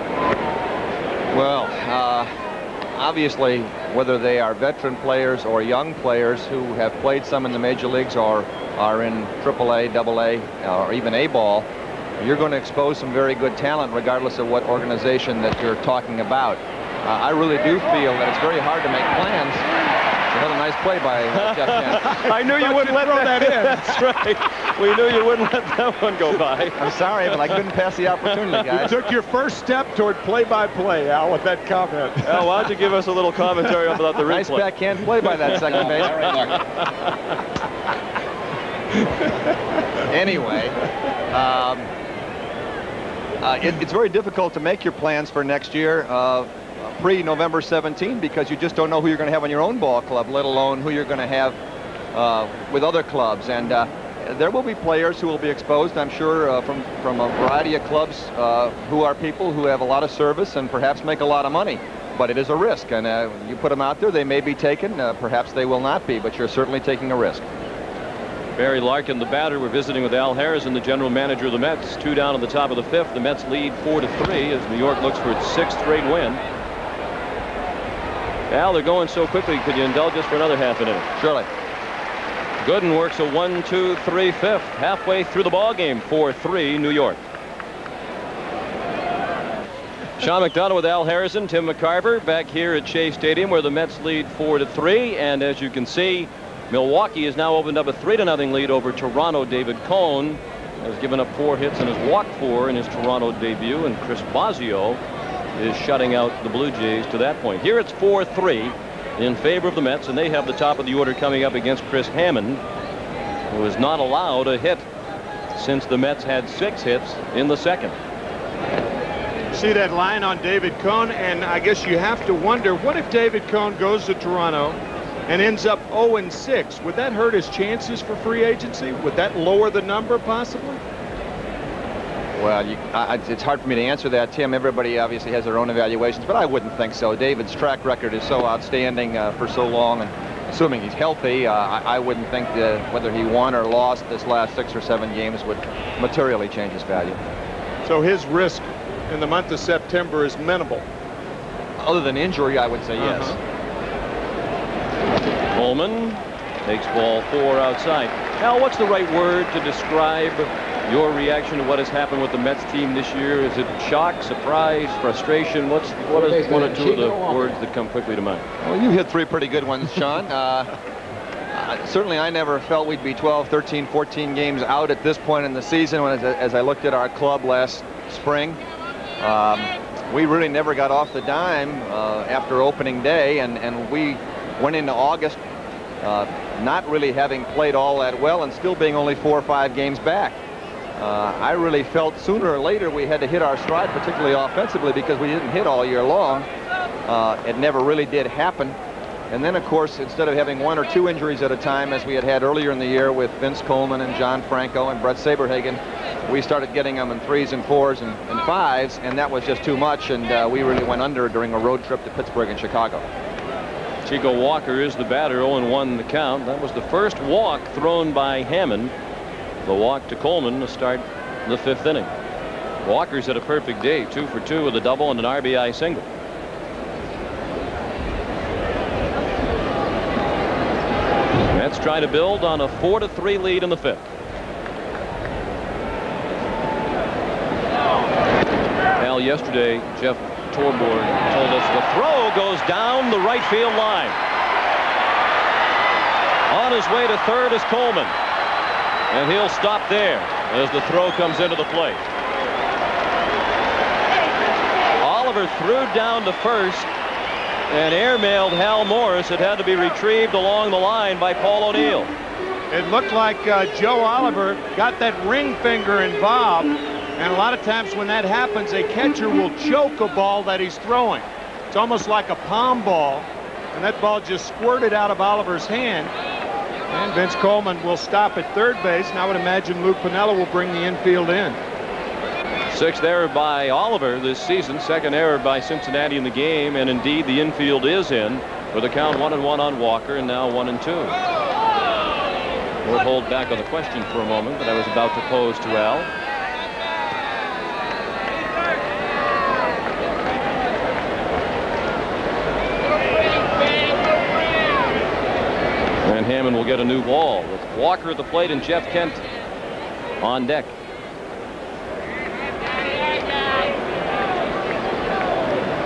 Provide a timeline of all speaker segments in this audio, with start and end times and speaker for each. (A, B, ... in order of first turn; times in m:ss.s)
0:01.3-0:02.3 A
0:03.0-0:11.7 A
0:12.2-0:19.6 A
0:20.3-0:22.3 A
0:21.3-0:26.8 B
0:22.2-0:24.2 C
0:26.8-0:28.9 A
0:28.7-0:32.6 C
0:32.2-0:34.7 B
0:34.2-0:36.3 A
0:35.5-0:36.6 D
0:36.7-0:37.1 B
0:40.0-0:40.8 A
0:41.3-0:41.9 A
0:43.4-0:51.6 A
0:52.1-1:07.4 A
1:08.6-1:16.4 B
1:18.5-1:21.1 B
1:21.2-1:21.5 A
1:22.6-1:27.2 B
1:30.2-1:45.0 B
1:45.6-1:52.6 B
1:53.5-1:54.9 B
1:55.5-1:58.0 B
1:59.5-2:10.8 C
2:12.4-2:27.2 A
2:27.8-2:30.8 C
2:31.8-2:33.4 A
2:33.0-2:33.4 C
2:35.5-2:48.4 B
2:46.0-2:47.6 D
2:48.6-2:50.7 A
2:51.5-2:58.6 A
2:59.2-3:05.4 A
3:06.0-3:10.4 A
3:11.0-3:16.5 A
3:17.1-3:18.8 A
3:19.3-3:33.0 A
3:34.0-3:38.9 B
3:39.6-3:42.1 B
3:42.8-3:46.0 B
3:51.5-3:54.0 B
3:59.0-4:04.2 B
4:06.5-4:08.1 B
4:09.1-4:12.0 B
4:15.0-4:16.9 B
4:17.7-4:22.1 B
4:22.7-4:36.1 C
4:36.9-4:41.6 C
4:42.7-4:51.2 B
4:52.8-4:56.1 B
5:06.0-5:09.2 B
5:10.2-5:10.7 B